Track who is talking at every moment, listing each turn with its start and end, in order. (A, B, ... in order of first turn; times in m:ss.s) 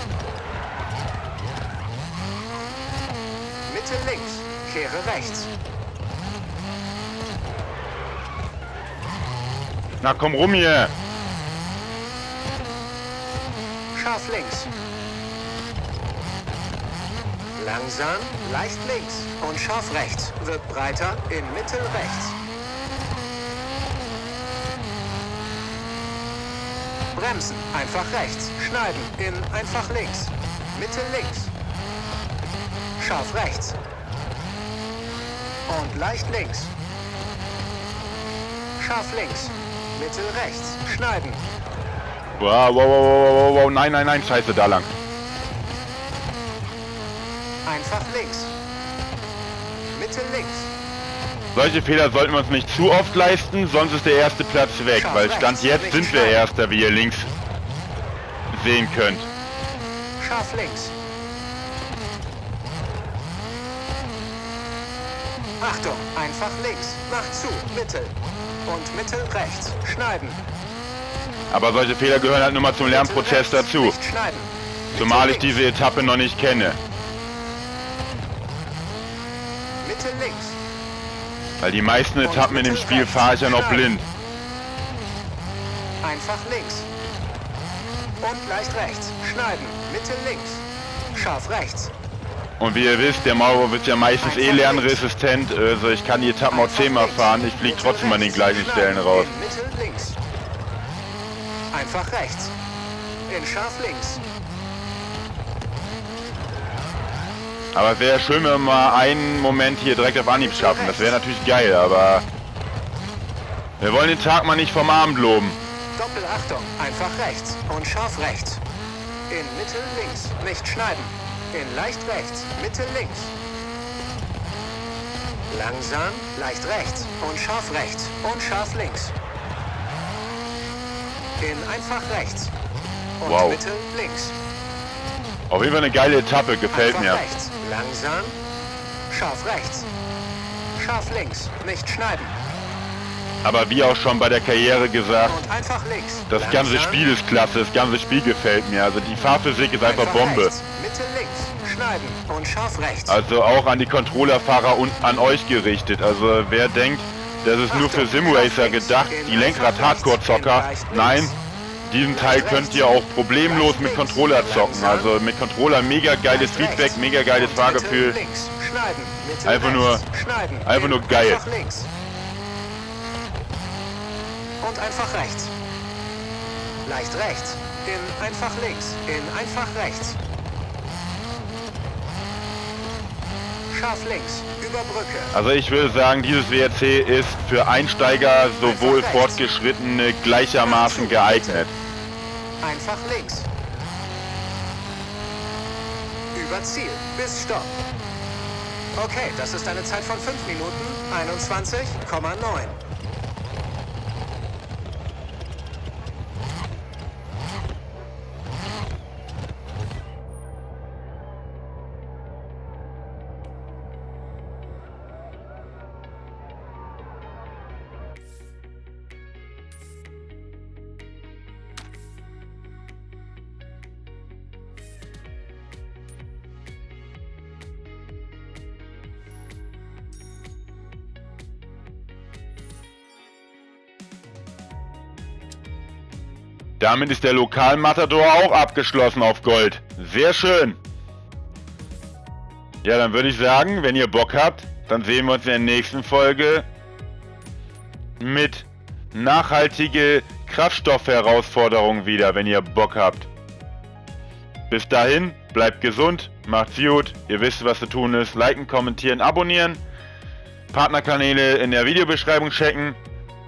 0:03.7-0:05.5 A
0:10.0-0:10.9 B
0:13.9-0:14.7 A
0:17.6-0:22.4 A
0:27.1-0:31.5 A
0:33.0-0:33.8 A
0:35.7-0:36.7 A
0:38.8-0:41.4 A
0:42.4-0:44.9 B
0:47.6-0:48.5 A
0:49.9-0:50.7 A
0:51.5-0:57.3 B
0:54.9-0:56.4 A
0:58.5-0:59.3 B
1:00.2-1:00.9 A
1:05.6-1:08.1 A
1:08.6-1:10.4 A
1:11.5-1:14.0 B
1:12.8-1:15.6 A
1:14.9-1:16.8 B
1:19.8-1:20.6 A
1:21.6-1:24.0 B
1:22.2-1:23.9 A
1:26.0-1:26.9 A
1:28.2-1:31.9 A
1:32.6-1:39.3 B
1:34.2-1:35.0 A
1:36.5-1:40.2 A
1:41.7-1:42.5 A
1:43.3-1:44.2 A
1:47.7-1:52.2 B
1:50.3-1:51.2 A
1:53.8-1:55.6 B
1:56.0-1:58.6 A
1:59.3-2:03.3 A
2:05.5-2:09.1 A
2:11.4-2:12.5 A
2:13.2-2:14.3 A
2:13.2-2:13.6 B
2:15.5-2:17.2 B
2:16.7-2:18.4 A
2:19.1-2:19.9 A
2:20.8-2:22.4 A
2:23.4-2:25.4 B
2:25.3-2:27.0 A
2:26.3-2:30.5 B
2:29.8-2:33.2 A
2:33.1-2:41.3 B
2:37.7-2:41.4 A
2:41.8-2:48.2 B
2:42.1-2:45.1 A
2:46.3-2:51.9 A
2:49.4-2:50.0 B
2:50.6-2:51.4 B
2:54.6-2:55.5 A
2:56.8-3:00.2 A
3:03.7-3:05.3 A
3:05.3-3:11.7 B
3:08.6-3:09.4 A
3:10.6-3:11.7 A
3:12.6-3:13.5 A
3:16.3-3:17.7 A
3:19.0-3:22.8 A
3:56.8-4:00.8 B
4:02.8-4:06.6 B
4:08.2-4:13.3 B
4:14.7-4:19.8 B
4:20.7-4:23.0 B